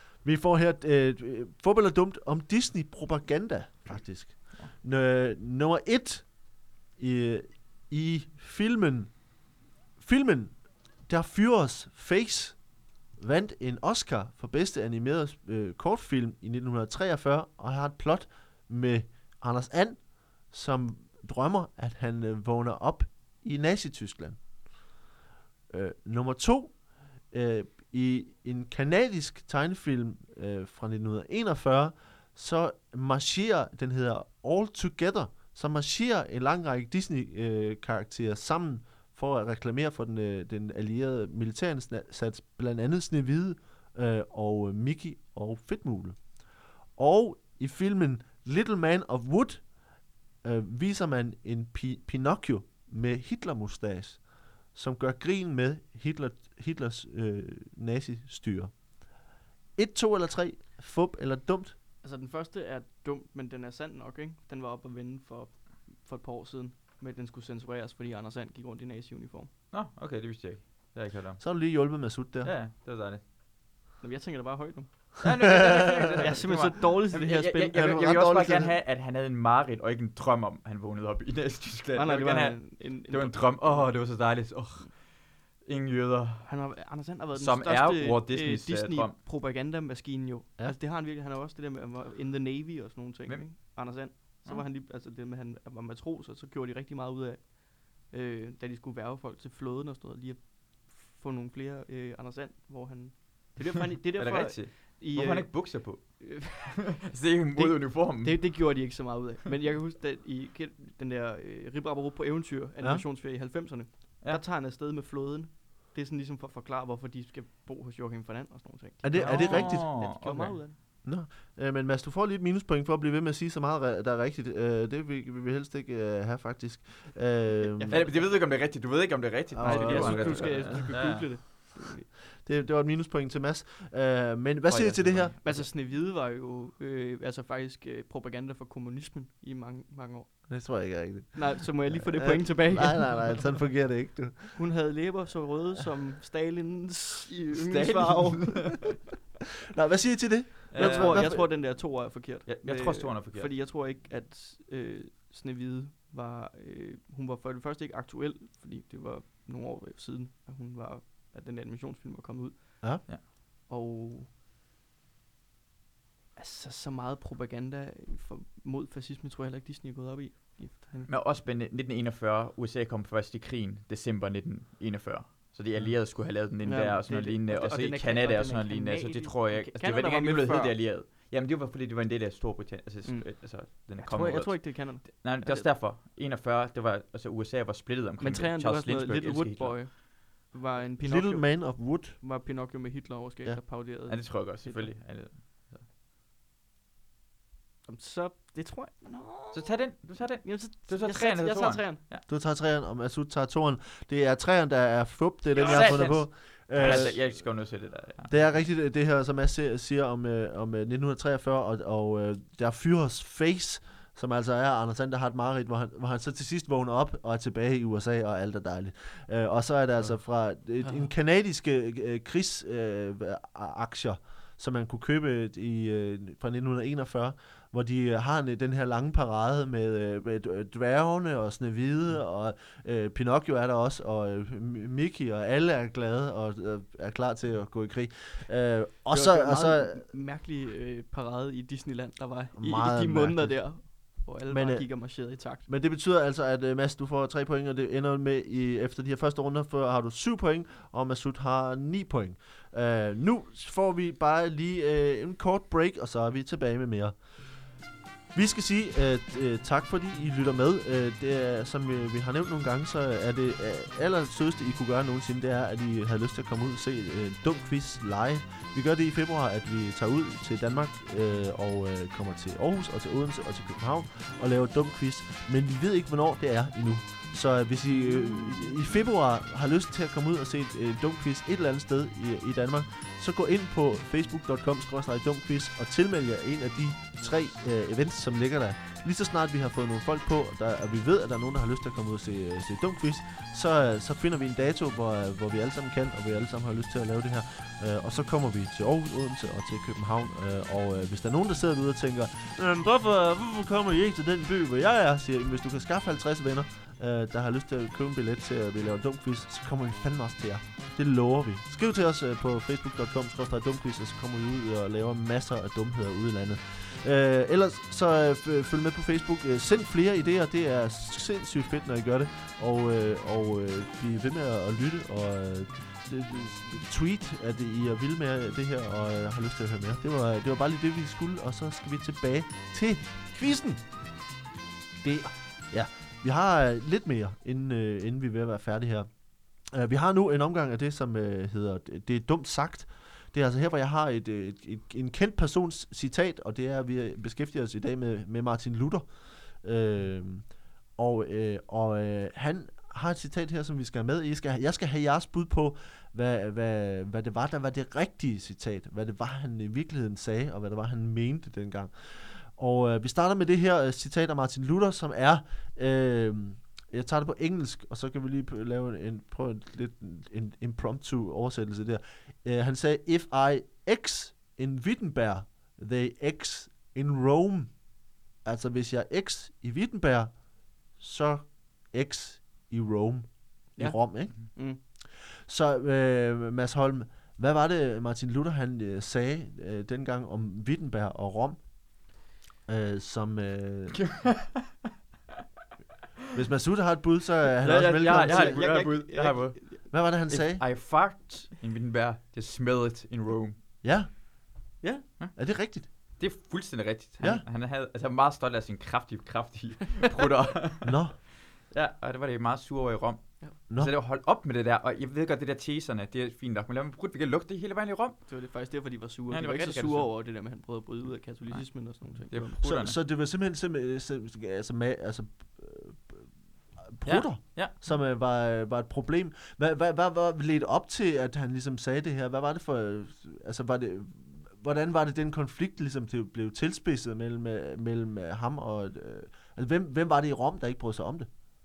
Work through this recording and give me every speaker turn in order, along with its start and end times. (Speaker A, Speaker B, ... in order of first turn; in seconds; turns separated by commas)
Speaker A: 0.2-9.4, Speaker A: 10.0-24.4, Speaker A: 25.7-46.3, Speaker A: 47.0-49.7, Speaker A: 50.4-58.8, Speaker A: 59.8-61.8, Speaker B: 62.0-69.5, Speaker C: 69.7-71.4, Speaker A: 71.4-72.5, Speaker C: 72.4-73.2, Speaker B: 74.0-75.4, Speaker C: 75.2-86.7, Speaker A: 75.6-76.2, Speaker B: 76.2-78.0, Speaker A: 77.7-78.8, Speaker B: 82.0-84.1, Speaker B: 86.5-106.9, Speaker C: 87.3-89.2, Speaker C: 93.3-94.6, Speaker C: 104.2-108.7, Speaker B: 107.5-120.8, Speaker A: 119.0-119.9, Speaker C: 119.2-120.6, Speaker A: 121.0-128.1, Speaker B: 127.7-128.3, Speaker C: 127.9-131.4, Speaker A: 129.5-130.9, Speaker B: 129.6-132.1, Speaker A: 132.4-135.4, Speaker C: 134.7-135.7, Speaker B: 135.4-140.8, Speaker A: 140.5-144.6, Speaker B: 141.3-143.4, Speaker B: 144.6-148.9, Speaker C: 147.6-148.8, Speaker A: 149.7-151.5, Speaker C: 150.7-151.9, Speaker B: 150.7-164.3, Speaker C: 152.5-153.5, Speaker B: 166.4-171.1, Speaker C: 171.1-189.9, Speaker B: 176.6-180.8, Speaker B: 183.0-185.7, Speaker B: 188.2-195.0, Speaker A: 191.0-192.2, Speaker C: 194.1-195.9, Speaker B: 197.9-202.0, Speaker C: 199.5-202.2, Speaker A: 202.3-207.6, Speaker B: 205.5-206.2, Speaker C: 205.6-208.3, Speaker A: 208.3-240.1, Speaker B: 239.1-245.7, Speaker A: 242.6-257.2, Speaker A: 258.3-333.9, Speaker A: 335.0-391.6, Speaker B: 383.8-384.8, Speaker A: 392.7-394.1, Speaker C: 393.9-394.8, Speaker A: 396.3-398.9, Speaker B: 397.6-399.8, Speaker C: 397.6-403.6, Speaker A: 399.9-400.6, Speaker A: 403.8-404.1, Speaker A: 405.4-405.9, Speaker C: 406.2-418.2, Speaker A: 410.8-411.2, Speaker A: 413.7-413.9, Speaker B: 418.3-422.6, Speaker C: 419.3-420.1, Speaker C: 421.5-423.0, Speaker A: 422.6-441.3, Speaker C: 427.1-427.8